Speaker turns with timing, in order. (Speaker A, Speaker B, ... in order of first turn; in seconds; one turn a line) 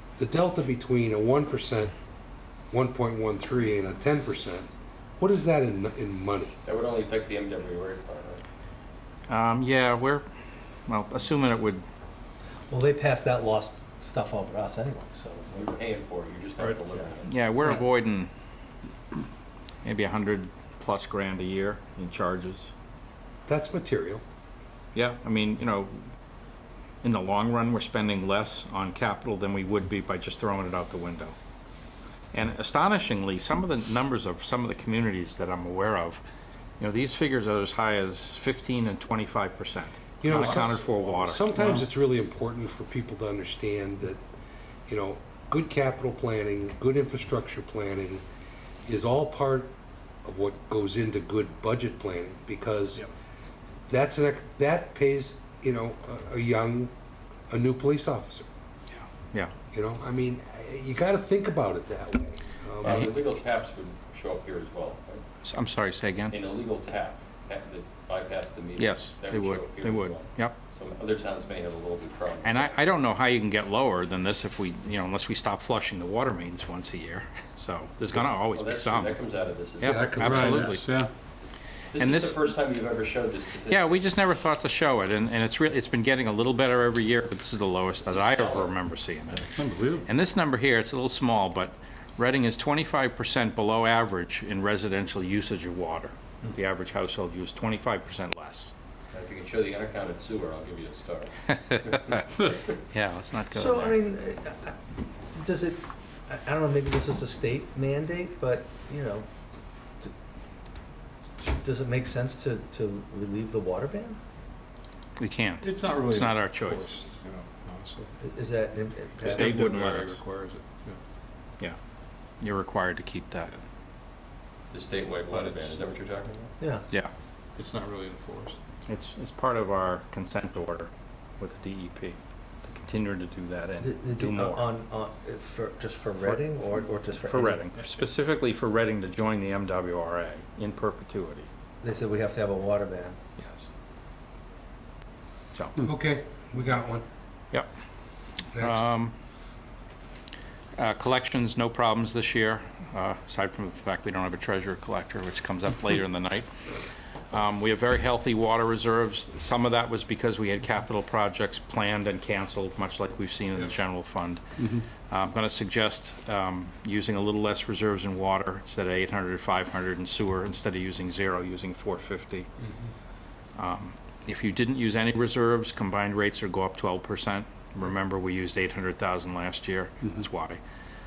Speaker A: 0.2-1.9
Speaker A: 2.7-4.7
Speaker A: 5.2-6.5
Speaker B: 6.6-8.4
Speaker C: 9.3-10.2
Speaker C: 10.9-11.8
Speaker D: 12.7-15.7
Speaker B: 15.5-17.3
Speaker C: 17.2-18.3
Speaker C: 19.8-22.7
Speaker A: 23.5-24.2
Speaker C: 24.9-26.0
Speaker C: 27.0-31.3
Speaker C: 32.3-36.2
Speaker C: 36.8-41.5
Speaker A: 40.2-44.2
Speaker A: 44.9-48.2
Speaker A: 48.8-49.7
Speaker A: 50.2-53.0
Speaker A: 53.9-56.9
Speaker A: 57.5-58.5
Speaker C: 59.0-59.5
Speaker A: 59.7-63.0
Speaker B: 62.8-65.2
Speaker C: 65.4-66.3
Speaker B: 66.3-72.7
Speaker C: 68.8-70.6
Speaker C: 72.4-79.2
Speaker B: 78.4-80.6
Speaker C: 79.8-80.8
Speaker A: 79.8-80.8
Speaker E: 80.2-81.1
Speaker B: 81.9-84.0
Speaker C: 82.0-82.4
Speaker C: 83.7-89.5
Speaker B: 88.0-88.8
Speaker E: 89.5-90.0
Speaker C: 90.0-98.7
Speaker B: 99.1-101.3
Speaker C: 101.5-102.2
Speaker B: 101.9-102.7
Speaker C: 102.9-104.0
Speaker D: 103.5-104.8
Speaker D: 105.3-109.3
Speaker D: 111.4-114.2
Speaker C: 115.2-116.9
Speaker E: 115.6-118.1
Speaker D: 118.2-119.8
Speaker C: 119.2-120.2
Speaker E: 119.2-121.0
Speaker C: 122.4-123.5
Speaker B: 124.7-126.5
Speaker E: 125.3-125.8
Speaker D: 126.6-126.9
Speaker E: 127.6-128.6
Speaker C: 128.9-134.7
Speaker D: 133.8-137.6
Speaker C: 136.2-141.5
Speaker D: 141.8-143.2
Speaker C: 143.4-143.7
Speaker A: 145.8-147.0
Speaker A: 148.5-148.9
Speaker C: 148.6-149.1
Speaker C: 150.8-156.6
Speaker C: 157.3-172.5
Speaker C: 173.6-180.6